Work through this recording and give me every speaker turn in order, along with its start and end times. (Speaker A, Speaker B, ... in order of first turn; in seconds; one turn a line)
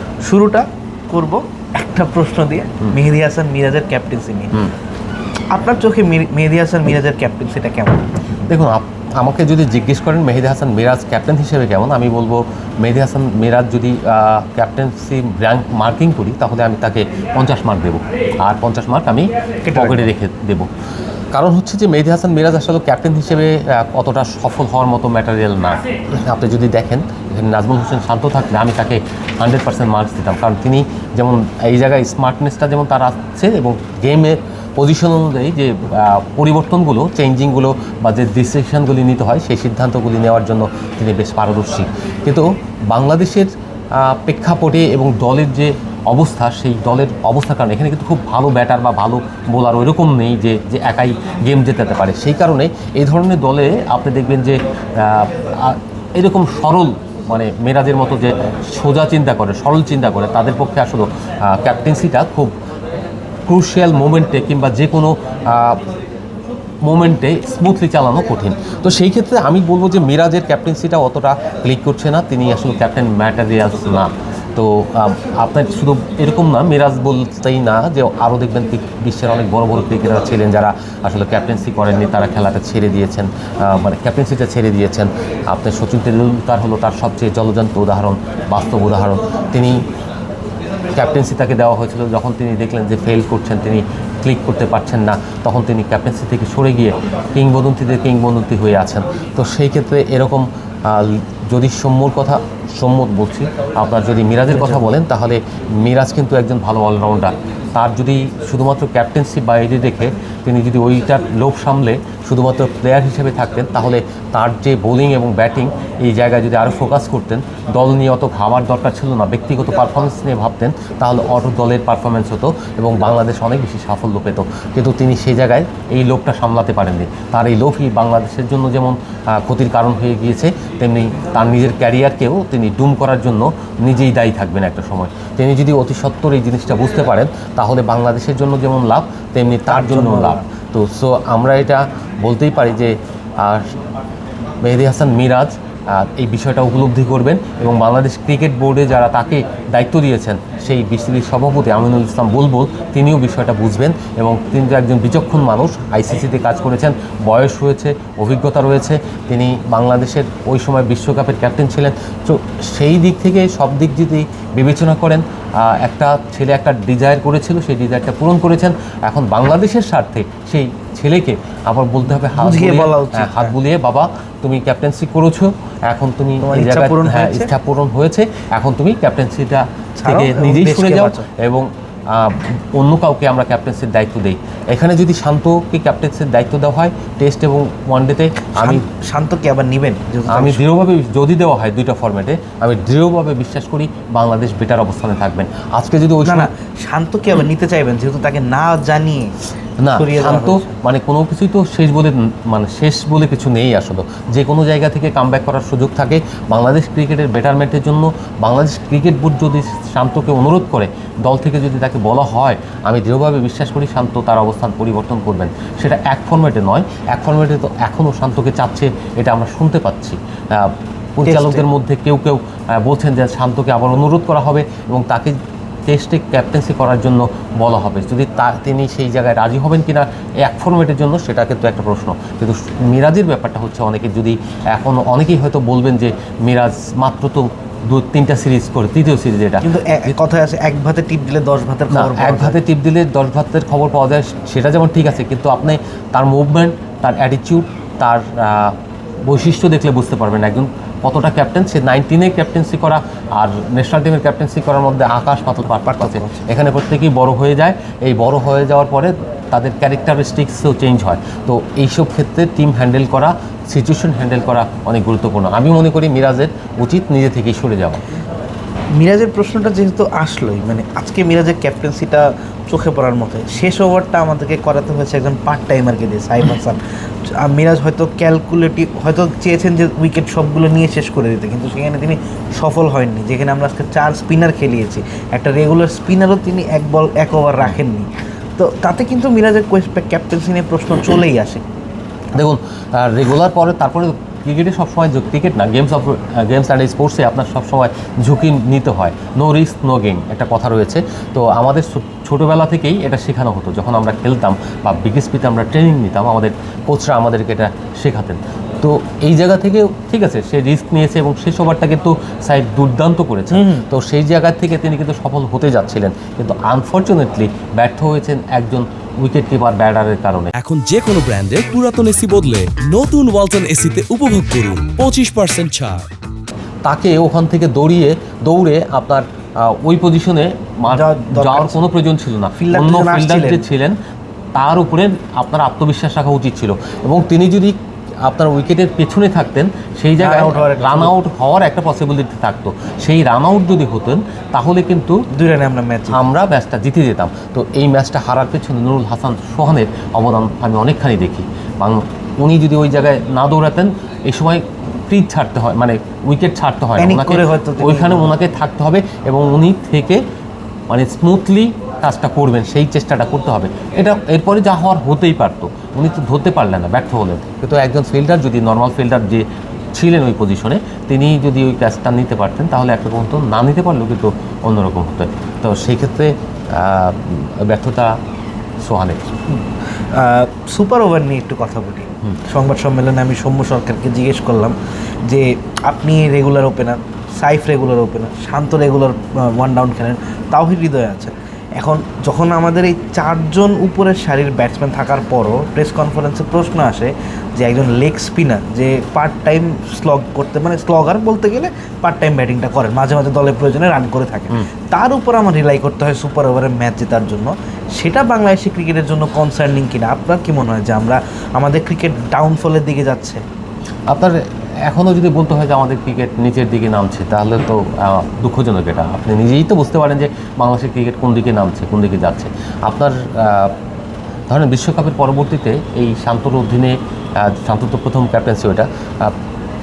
Speaker A: 0.2-4.7
Speaker A: 5.5-8.1
Speaker B: 8.5-20.7
Speaker A: 19.6-20.1
Speaker B: 21.3-62.5
Speaker B: 63.5-65.8
Speaker B: 66.8-89.8
Speaker B: 90.9-143.7
Speaker A: 104.5-104.9
Speaker A: 139.7-140.4
Speaker B: 144.6-188.8
Speaker A: 172.1-173.5
Speaker A: 176.4-177.5
Speaker A: 180.0-181.2
Speaker A: 188.6-190.6
Speaker B: 190.3-196.5
Speaker A: 196.2-199.3
Speaker B: 199.8-225.4
Speaker A: 199.9-200.7
Speaker A: 221.2-221.7
Speaker B: 225.9-239.7
Speaker A: 239.6-242.6
Speaker B: 241.9-268.0
Speaker A: 255.7-256.4
Speaker A: 268.9-291.6
Speaker B: 292.3-320.5
Speaker A: 313.5-313.9
Speaker C: 320.5-326.1
Speaker B: 326.8-334.0
Speaker A: 330.9-331.8
Speaker A: 332.6-333.6
Speaker B: 334.6-345.2
Speaker A: 340.2-341.1
Speaker A: 345.3-346.2
Speaker B: 346.1-360.2
Speaker A: 357.0-358.3
Speaker B: 360.9-378.1
Speaker B: 378.8-379.2
Speaker A: 380.1-413.4
Speaker B: 414.1-423.7
Speaker B: 424.5-429.4